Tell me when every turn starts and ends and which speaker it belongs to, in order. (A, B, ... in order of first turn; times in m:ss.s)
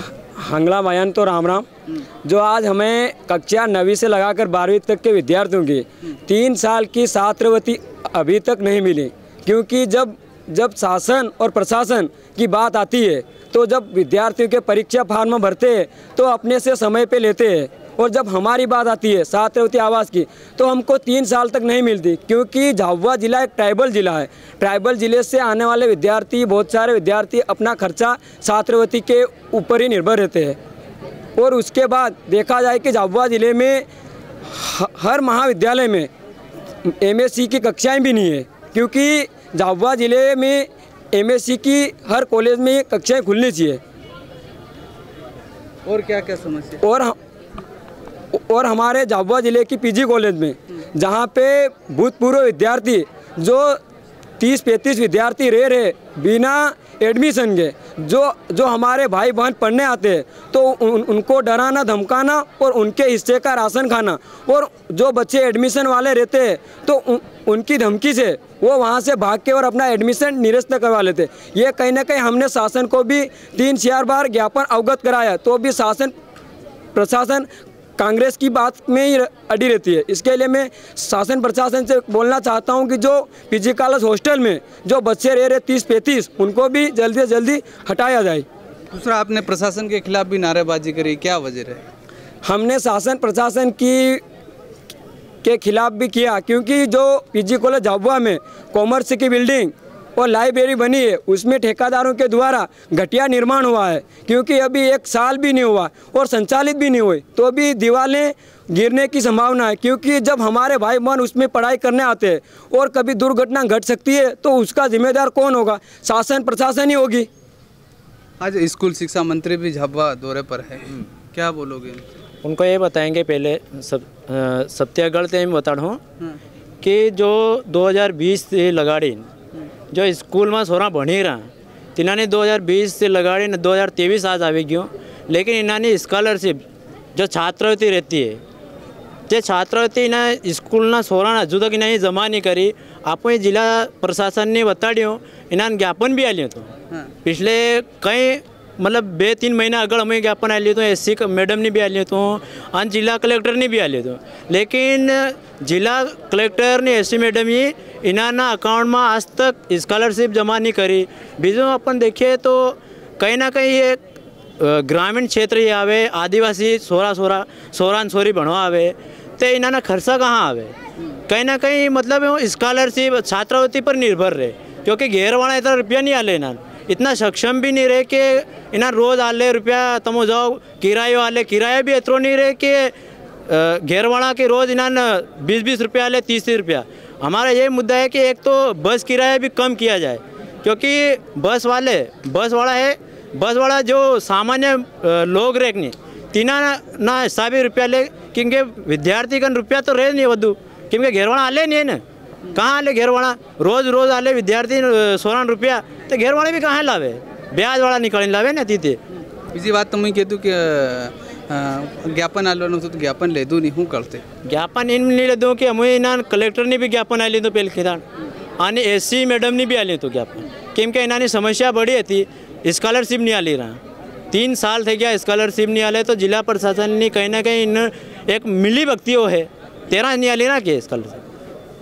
0:00.4-0:01.7 A
0:02.3-0:30.6 A
0:31.4-0:33.9 A
0:34.5-0:36.1 A
0:36.8-0:43.8 A
0:45.9-0:46.8 B
0:46.8-0:47.2 A
0:48.3-0:53.8 A
0:54.4-1:16.1 A
1:16.9-1:28.5 A
1:28.9-1:31.8 B
1:32.5-1:34.2 A
1:35.4-1:57.3 A
1:58.4-2:02.0 B
2:02.4-2:06.0 C
2:06.8-2:09.3 C
2:09.9-2:16.6 C
2:17.2-2:18.4 C
2:19.3-2:26.7 C
2:27.2-2:44.0 C
2:44.6-2:50.7 C
2:51.3-3:02.9 C
3:03.5-3:22.0 C
3:22.5-3:29.0 C
3:29.5-3:34.2 B
3:34.4-3:38.0 C
3:38.6-3:43.8 C
3:44.3-3:51.2 C